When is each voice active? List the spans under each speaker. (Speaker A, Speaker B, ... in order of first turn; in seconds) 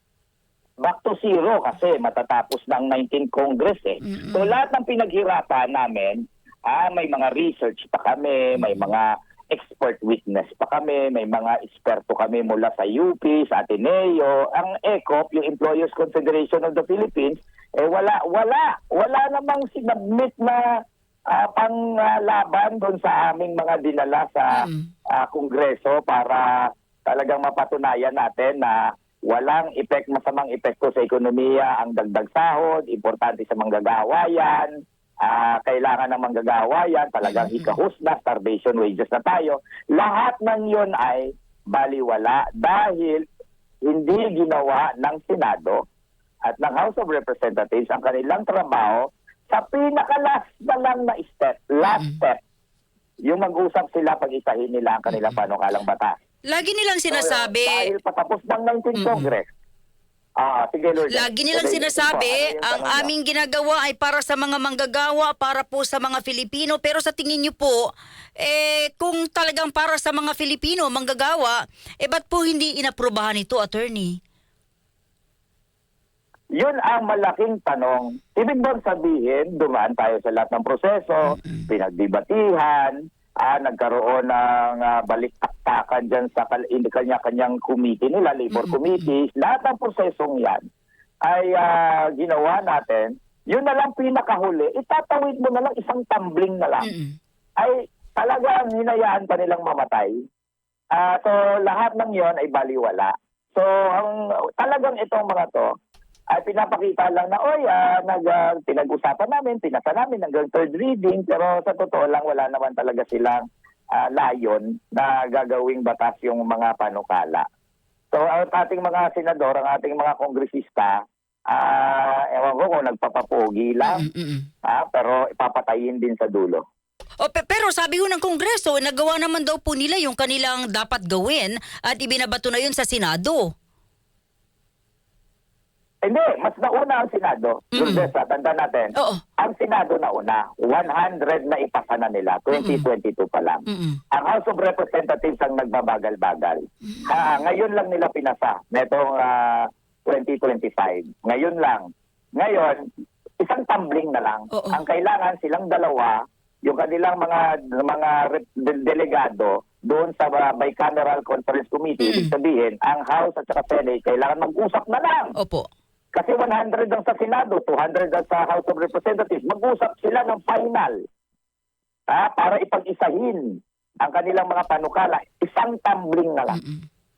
Speaker A: 0.8-20.7, 21.3-43.2, 43.8-45.8, 46.4-52.4, 53.3-56.1, 57.1-59.5, 60.4-63.1, 76.6-90.6, 91.2-96.9, 97.6-100.1, 100.9-105.7, 106.3-117.4, 118.1-124.0, 124.7-126.6, 136.0-152.9, 153.4-165.3, 166.1-171.0, 172.1-176.6
Speaker B: 4.0-4.5, 24.5-24.9, 37.2-37.8, 51.9-52.1, 55.1-55.4, 56.5-57.9, 58.9-59.3, 61.1-67.8, 68.4-74.1, 81.4-81.6, 88.5-89.1, 96.8-97.2, 123.8-124.5, 127.2-133.4, 137.8-138.1, 138.9-139.2, 142.5-142.8, 143.7-144.0, 154.5-154.8, 162.0-162.3, 165.4-165.7, 176.5-176.8